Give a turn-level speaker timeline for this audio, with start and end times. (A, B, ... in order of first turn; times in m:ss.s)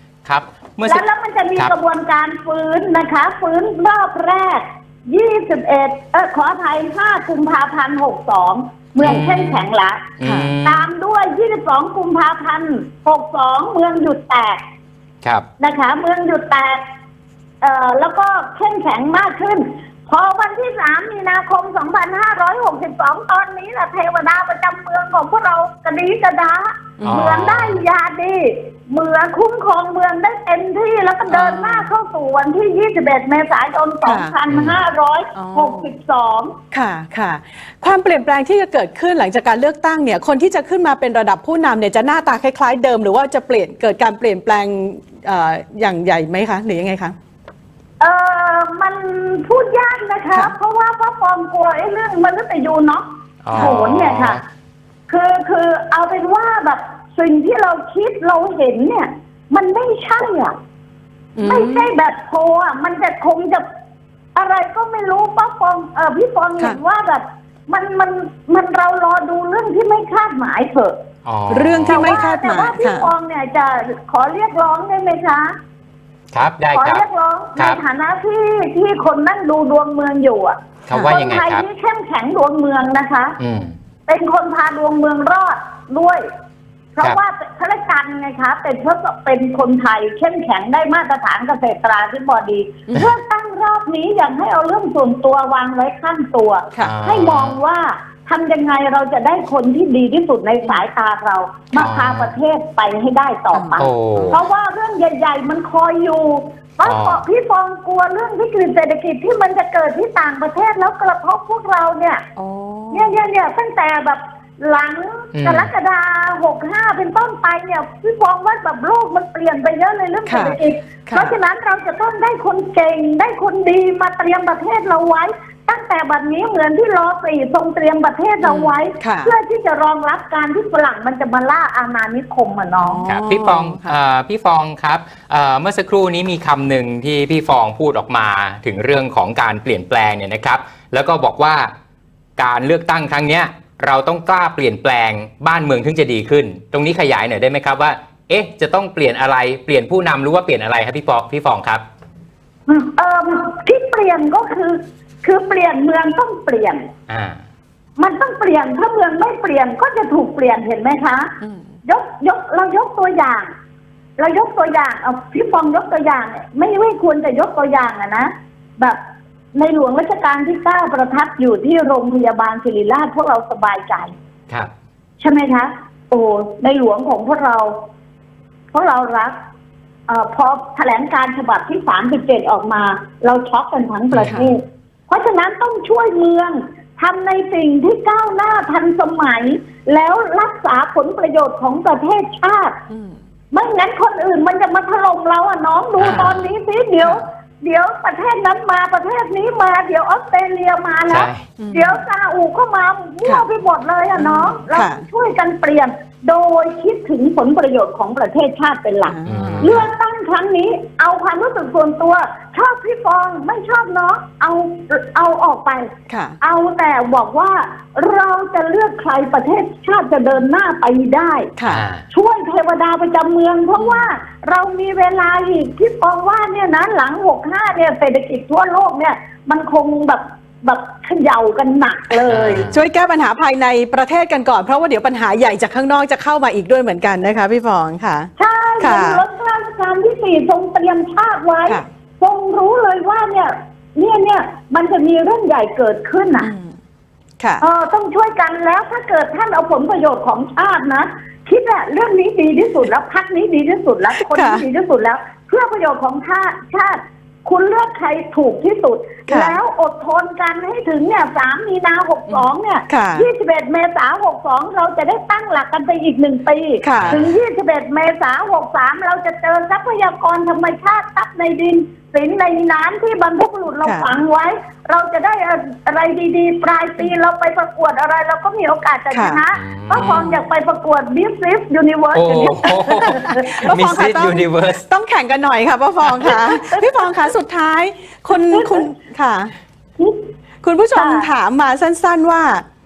0:00.2-0:01.0 A
0:00.8-0:10.1 B
0:09.0-0:09.6 A
0:09.0-0:09.3 C
0:10.2-0:10.9 A
0:10.2-0:10.5 C
0:10.6-0:14.6 B
0:15.6-0:16.8 B
0:17.6-0:36.5 B
0:27.0-0:27.3 C
0:27.0-0:27.8 A
0:31.2-0:31.9 C
0:34.0-0:34.3 C
0:34.5-0:34.8 A
0:35.3-0:35.9 C
0:36.7-0:47.2 C
0:48.0-0:54.4 B
0:53.4-0:54.4 A
0:55.1-1:00.5 B
1:01.4-1:01.9 C
1:01.4-1:03.6 B
1:04.3-1:10.9 B
1:11.2-1:12.2 A
1:11.5-1:13.1 C
1:11.8-1:15.5 B
1:16.3-1:17.0 A
1:16.7-1:23.4 B
1:20.9-1:21.6 A
1:23.4-1:23.7 A
1:24.1-1:26.2 B
1:27.0-1:52.2 B
1:36.8-1:37.6 A
1:41.7-1:42.3 A
1:43.5-1:44.4 C
1:43.8-1:44.4 A
1:46.8-1:47.2 A
1:52.4-1:53.2 C
1:52.9-2:13.0 B
1:55.3-1:55.7 A
2:00.3-2:01.3 C
2:08.4-2:09.3 C
2:12.8-2:14.0 C
2:13.0-2:21.7 A
2:22.4-2:31.8 A
2:32.7-2:36.8 B
2:37.1-2:37.4 A
2:38.0-2:41.3 B
2:41.4-2:41.7 C
2:41.8-2:43.5 B
2:44.2-2:49.0 B
2:49.5-2:54.1 B
2:55.2-2:57.7 B
2:58.7-2:59.3 B
3:00.1-3:12.8 B
3:04.1-3:04.4 A
3:04.2-3:04.5 C
3:12.9-3:13.2 C
3:13.5-3:35.9 B
3:16.0-3:16.5 A
3:21.1-3:21.5 A
3:21.6-3:22.0 C
3:24.2-3:25.0 C
3:29.0-3:29.7 C
3:29.3-3:29.9 A
3:36.1-3:36.4 C
3:36.4-3:41.5 B
3:41.6-3:41.8 C
3:41.7-3:42.0 A
3:42.1-3:52.7 B
3:43.8-3:44.1 C
3:52.2-3:52.9 A
3:52.5-3:59.2 C
3:58.4-4:06.5 B
4:06.4-4:06.8 C
4:07.4-4:07.6 C
4:07.6-4:43.5 B
4:14.2-4:14.6 C
4:19.3-4:19.6 C
4:22.3-4:23.3 C
4:26.8-4:27.2 C
4:27.0-4:27.3 A
4:33.8-4:34.1 C
4:39.1-4:39.4 C
4:39.5-4:40.3 A
4:40.0-4:40.3 C
4:42.1-4:44.8 A
4:43.1-4:49.5 C
4:46.3-4:46.8 B
4:48.3-4:48.8 B
4:50.6-4:52.6 C
4:50.9-4:51.3 B